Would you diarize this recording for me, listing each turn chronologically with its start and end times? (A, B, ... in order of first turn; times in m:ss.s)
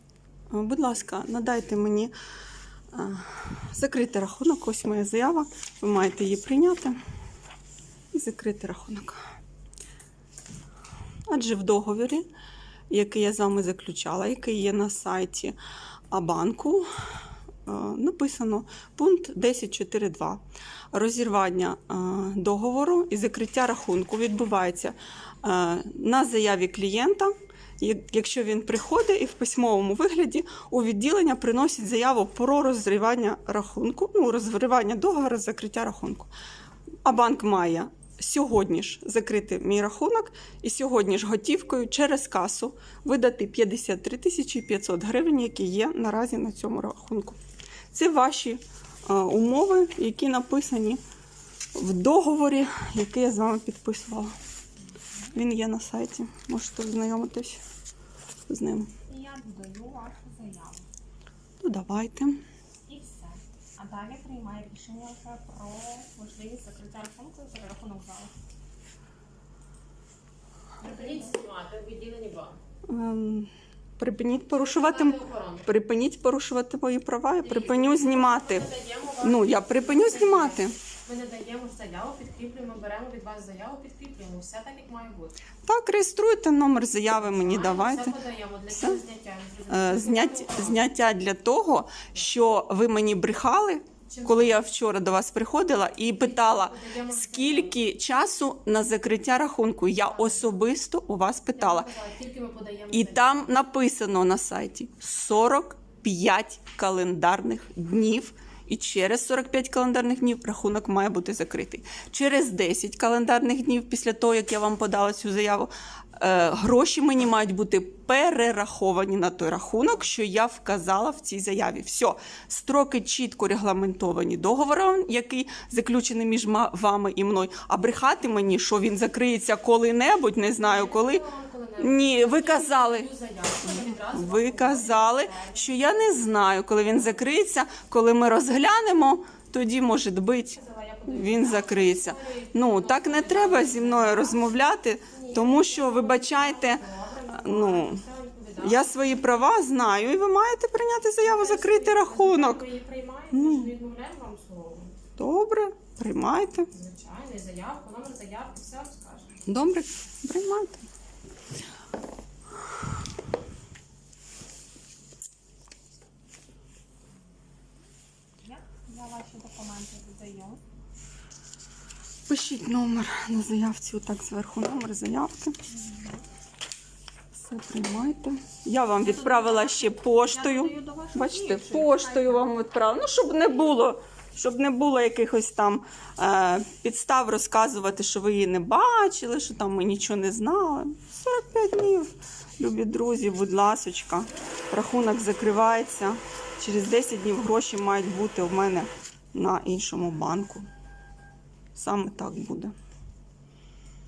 0:00.5-0:02.1 A
0:02.9-0:07.0 A
0:08.1-0:09.2 A
0:11.3-0:12.3 A
0:12.9-0:15.6 A
0:16.1-0:16.9 A
0:17.7-0:20.4 A
0:20.9-0:36.3 A
0:37.0-0:47.4 A
0:47.9-0:51.0 A
0:51.8-0:54.4 A
0:55.3-0:57.6 A
0:58.5-0:58.9 A
0:59.1-1:00.9 B
1:01.6-1:02.4 A
1:02.9-1:08.3 B
1:10.8-1:11.4 B
1:10.8-1:12.6 C
1:12.9-1:18.7 A
1:14.5-1:15.7 C
1:17.4-1:25.4 C
1:19.2-1:20.8 A
1:25.7-1:29.0 A
1:27.3-1:30.8 C
1:29.7-1:41.9 A
1:34.1-1:34.6 C
1:36.0-1:37.8 C
1:40.1-1:40.4 C
1:41.6-1:43.4 C
1:42.9-2:11.2 A
2:10.6-2:16.2 C
2:11.8-2:13.1 A
2:13.6-2:28.0 A
2:20.6-2:29.0 C
2:28.6-2:32.7 A
2:31.2-2:35.0 C
2:33.3-2:33.7 A
2:35.2-2:36.7 A
2:36.7-2:39.4 C
2:39.5-2:40.8 A
2:48.4-2:50.6 B
2:52.3-2:55.6 A
2:55.7-2:56.2 B
2:57.3-3:20.7 A
2:59.0-3:02.5 B
3:21.8-3:22.7 A